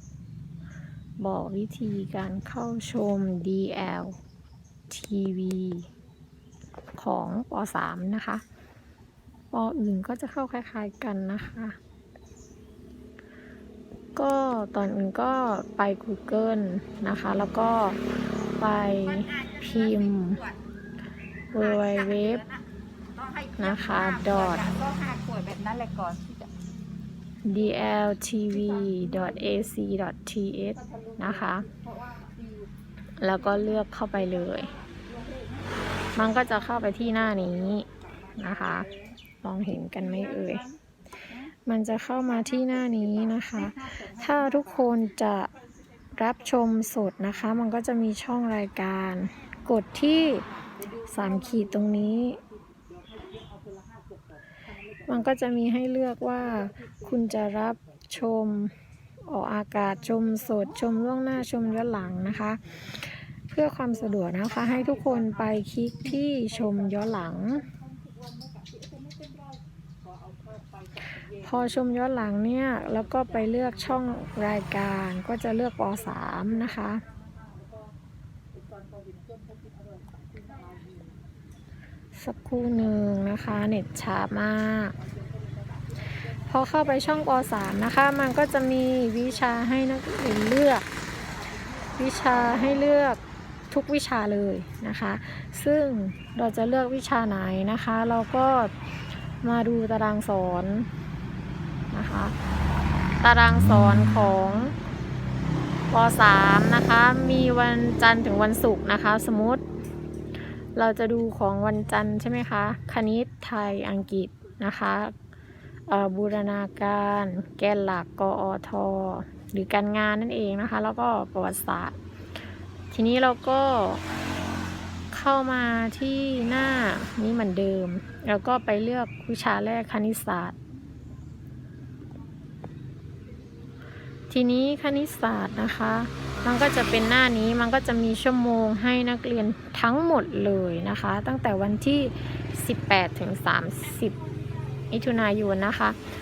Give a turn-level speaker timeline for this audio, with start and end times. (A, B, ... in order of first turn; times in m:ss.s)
0:01.2-0:04.2 A
0:04.9-0:05.9 A
0:07.0-0:08.4 A
0:09.5-0:11.8 A
0:14.2-0:18.0 A
0:18.6-0:20.4 A
0:19.2-0:19.6 B
0:20.2-0:20.5 B
0:21.5-0:22.4 A
0:23.2-0:26.5 B
0:23.6-0:24.7 A
0:27.4-0:31.6 A
0:31.7-0:32.4 B
0:33.2-0:34.7 A
0:35.0-0:35.5 B
0:36.2-0:38.9 A
0:39.4-0:40.6 A
0:41.6-0:45.5 A
0:43.8-0:44.1 B
0:46.2-0:52.4 A
0:53.2-0:54.0 B
0:55.1-1:07.6 A
1:07.7-1:09.4 B
1:11.4-1:17.0 A
1:18.8-1:20.9 B
1:22.1-1:24.9 A
1:26.4-1:30.9 A
1:32.0-1:33.2 A
1:33.7-1:38.7 A
1:39.4-1:40.9 A
1:41.9-1:42.3 A
1:43.2-1:44.7 A
1:45.9-1:49.6 A
1:50.8-1:55.1 A
1:55.9-2:02.0 A
2:02.9-2:04.0 A
2:05.1-2:10.5 A
2:14.3-2:24.2 A
2:24.9-2:26.0 A